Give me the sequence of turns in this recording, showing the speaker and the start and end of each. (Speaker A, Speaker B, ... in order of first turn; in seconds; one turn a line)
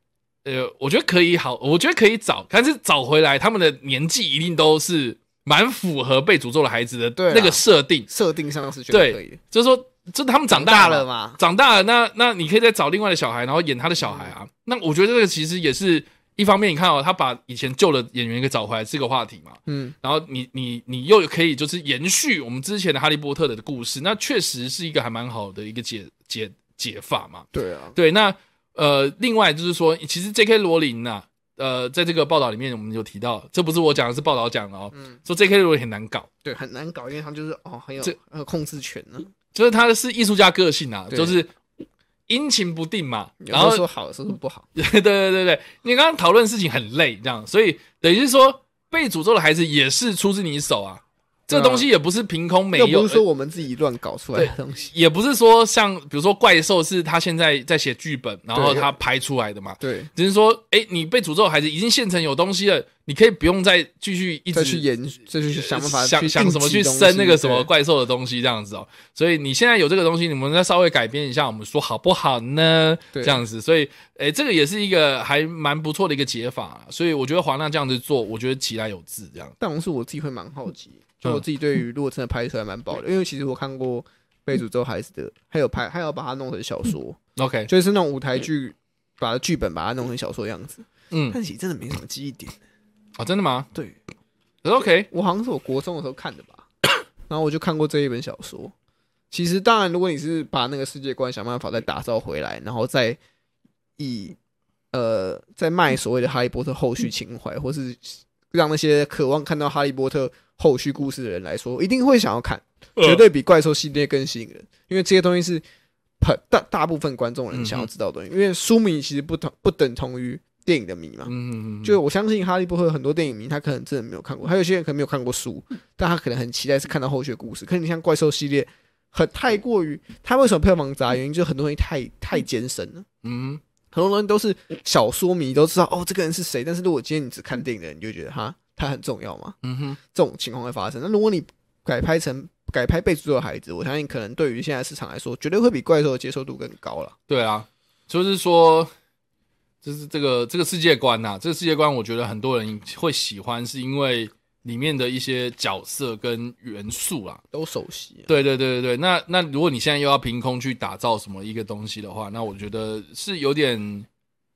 Speaker A: 0.5-8.1
Speaker B: 7.2-9.4
Speaker A: 8.9-36.3
Speaker B: 10.5-11.4
Speaker B: 14.1-14.3
Speaker B: 19.7-20.0
Speaker B: 27.5-28.0
Speaker B: 36.4-39.3
Speaker A: 39.5-41.5
Speaker B: 41.1-41.4
Speaker A: 42.3-43.8
Speaker B: 43.4-44.7
Speaker A: 44.8-53.2
Speaker B: 51.5-51.9
Speaker B: 52.7-54.9
Speaker A: 54.4-64.8
Speaker B: 58.5-58.9
Speaker B: 59.8-60.1
Speaker B: 64.5-67.7
Speaker A: 65.5-79.5
Speaker B: 73.1-73.4
Speaker B: 79.6-92.6
Speaker A: 87.4-87.7
Speaker A: 91.1-91.4
Speaker A: 93.2-93.7
Speaker A: 94.6-95.1
Speaker B: 95.1-96.7
Speaker B: 97.3-98.7
Speaker B: 99.3-103.2
Speaker B: 104.0-104.4
Speaker B: 104.9-115.6
Speaker A: 113.0-113.2
Speaker B: 116.2-121.3
Speaker A: 117.5-117.9
Speaker A: 121.3-122.0
Speaker B: 121.8-133.1
Speaker A: 133.2-133.6
Speaker B: 133.9-139.6
Speaker A: 139.6-140.0
Speaker B: 140.1-147.2
Speaker A: 147.3-148.9
Speaker A: 149.8-157.4
Speaker B: 157.5-158.3
Speaker A: 158.3-164.1